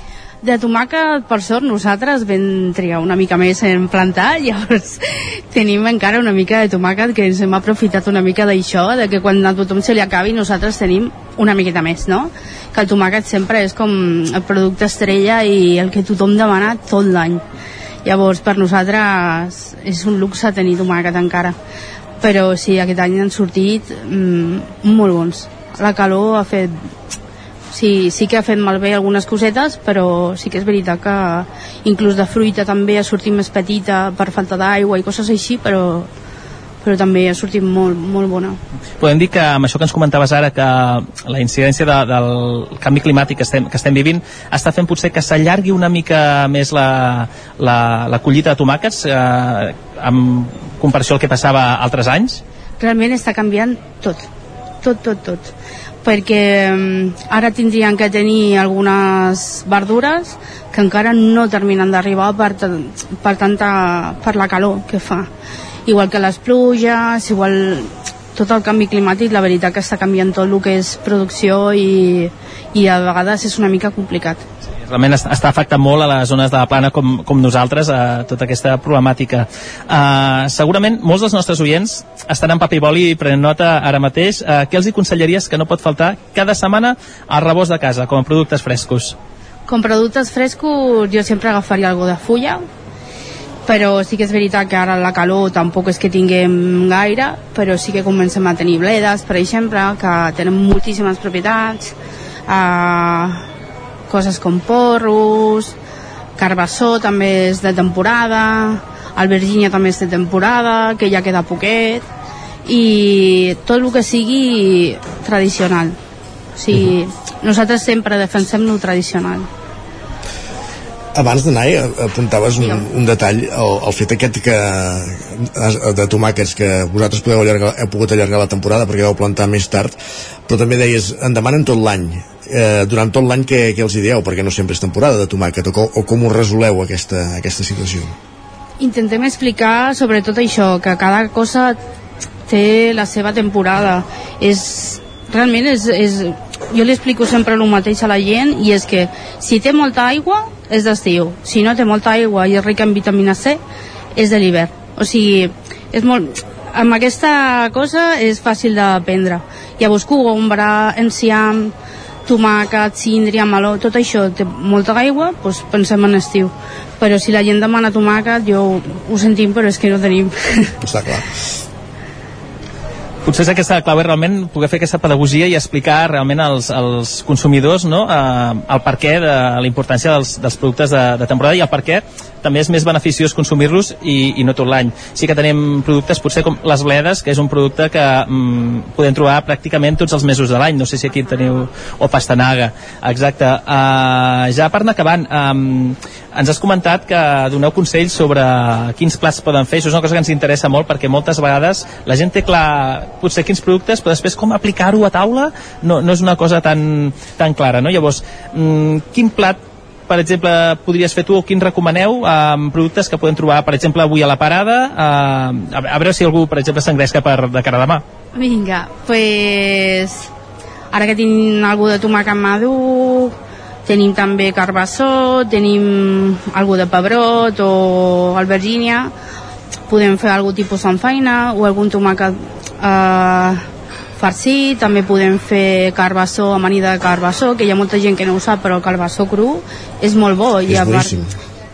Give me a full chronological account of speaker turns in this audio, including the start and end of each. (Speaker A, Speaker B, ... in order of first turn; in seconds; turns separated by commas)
Speaker A: 0.4-17.4, Speaker A: 18.0-21.6, Speaker A: 22.2-26.8, Speaker A: 27.7-36.1, Speaker A: 36.8-38.6, Speaker B: 39.0-52.4, Speaker A: 52.8-54.2, Speaker A: 54.8-55.5, Speaker A: 56.0-65.3, Speaker A: 65.9-74.4, Speaker B: 74.8-89.1, Speaker A: 89.7-92.6, Speaker A: 93.7-101.9, Speaker A: 102.5-103.4, Speaker A: 104.1-105.7, Speaker A: 106.4-112.0, Speaker A: 112.7-116.0, Speaker A: 116.6-119.5, Speaker C: 121.1-129.9, Speaker C: 130.5-138.1, Speaker A: 138.8-141.8, Speaker A: 142.5-153.6, Speaker A: 154.2-161.7, Speaker A: 162.2-170.7, Speaker C: 170.8-171.4, Speaker B: 173.2-218.0, Speaker A: 218.3-220.3, Speaker A: 220.9-223.3, Speaker A: 223.8-229.1, Speaker A: 229.9-233.6, Speaker A: 234.2-241.1, Speaker C: 240.7-241.3